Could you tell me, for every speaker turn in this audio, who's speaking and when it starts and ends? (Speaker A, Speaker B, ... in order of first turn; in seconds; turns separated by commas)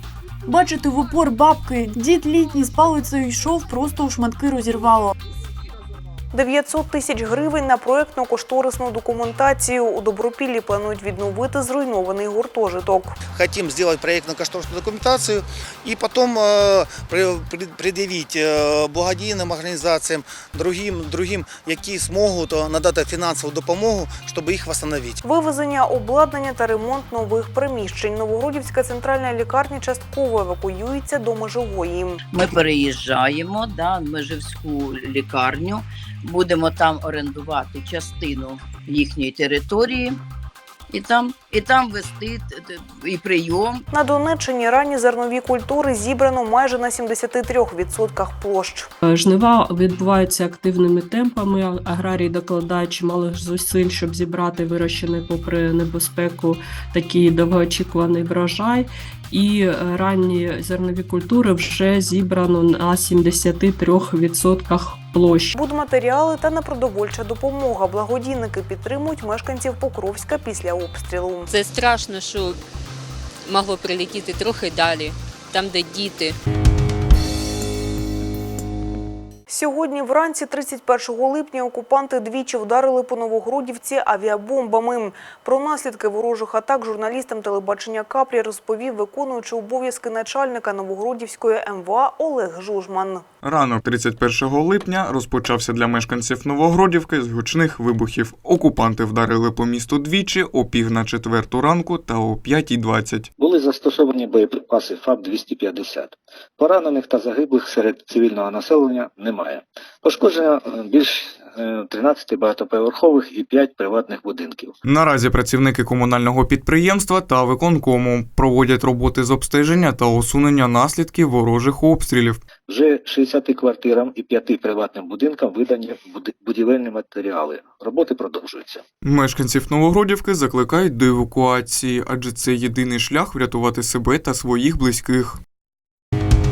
Speaker A: 0.5-5.1, Speaker B: 6.3-13.2, Speaker C: 13.3-25.2, Speaker B: 25.2-32.2, Speaker D: 32.3-40.2, Speaker D: 40.9-43.8, Speaker B: 43.9-48.9, Speaker E: 49.0-65.6, Speaker B: 65.5-71.5, Speaker F: 71.5-72.6, Speaker F: 73.5-76.4, Speaker B: 79.5-93.2, Speaker G: 93.4-103.3, Speaker H: 103.4-114.8, Speaker G: 114.8-122.4, Speaker H: 122.7-128.8, Speaker G: 129.0-135.4